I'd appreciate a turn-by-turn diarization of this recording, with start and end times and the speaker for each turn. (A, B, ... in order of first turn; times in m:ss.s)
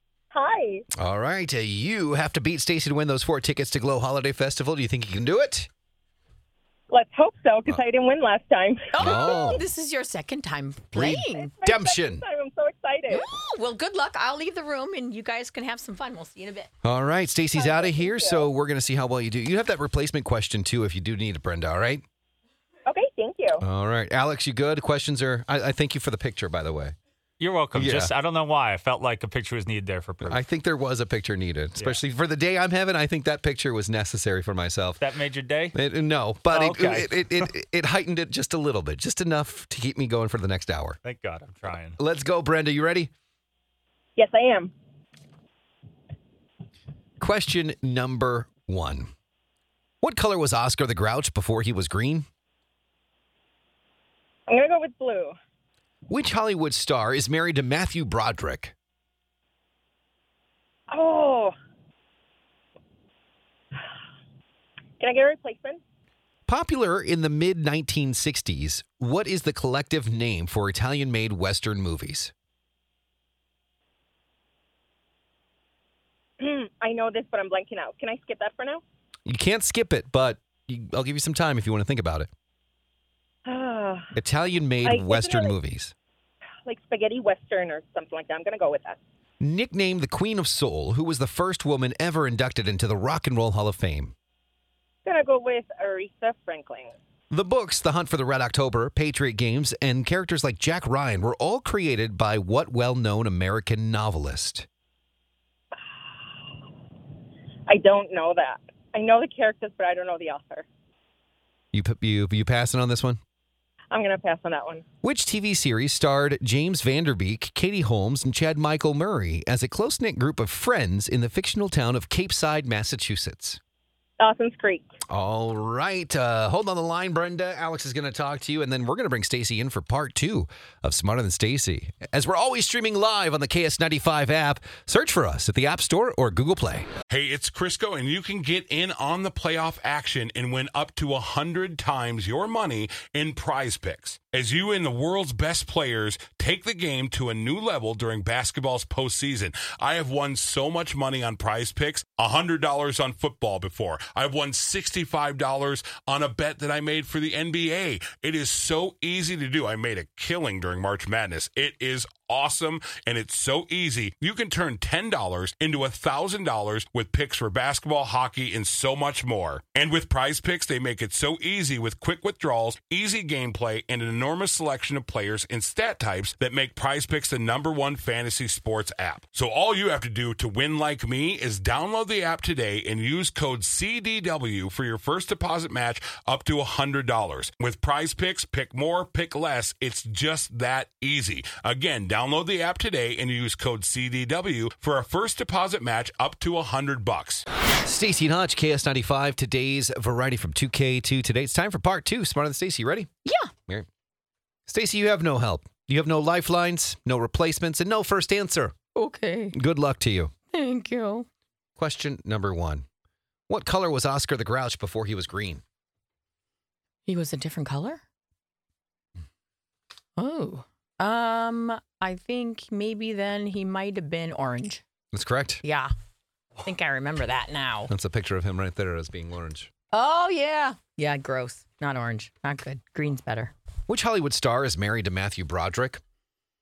0:00.3-0:00.8 A
0:00.9-0:05.7 B
0:06.9-0:08.9 A
0:08.9-0:11.5 C
0:09.0-0:09.6 B
0:10.9-0:12.2 B
0:11.4-0:13.2 A
0:13.1-0:16.7 C
0:16.8-0:22.0 B
0:17.5-0:18.5 A
0:22.8-0:23.6 A
0:23.6-0:27.0 B
0:27.4-0:30.4 D
0:27.7-0:28.1 B
0:30.2-0:35.0 B
0:35.0-0:35.8 D
0:35.7-0:41.0 B
0:36.5-0:37.5 D
0:41.0-0:42.0 D
0:42.0-0:43.1 B
0:44.2-0:44.7 A
0:47.2-0:49.1 B
0:50.0-0:52.2 B
0:54.5-0:55.3 A
0:56.1-0:58.7 B
1:00.9-1:01.5 A
1:05.0-1:05.8 A
1:06.5-1:12.3 B
1:16.4-1:18.8 A
1:19.2-1:22.3 B
1:23.4-1:24.1 A
1:24.1-1:25.9 B
1:24.8-1:25.5 A
1:26.6-1:29.0 A
1:29.4-1:34.1 B
1:35.0-1:36.9 A
1:37.3-1:44.6 B
1:47.7-1:50.6 A
1:51.7-1:53.2 B
1:53.9-1:54.8 A
1:55.0-2:03.6 B
2:04.2-2:04.8 A
2:05.1-2:16.9 B
2:17.1-3:17.4 E
3:17.8-3:23.1 B
3:23.2-3:23.5 C
3:24.7-3:28.7 B
3:28.9-3:29.6 C
3:29.5-3:30.3 B
3:30.5-3:31.3 C
3:31.8-3:32.8 B
3:33.5-3:35.6 B
3:37.0-3:38.0 C
3:40.2-3:44.8 C
3:45.1-3:45.6 B
3:45.6-3:45.9 C
3:46.6-3:47.9 C
3:47.9-3:49.7 B
3:49.9-3:53.5 C
3:53.9-3:56.0 B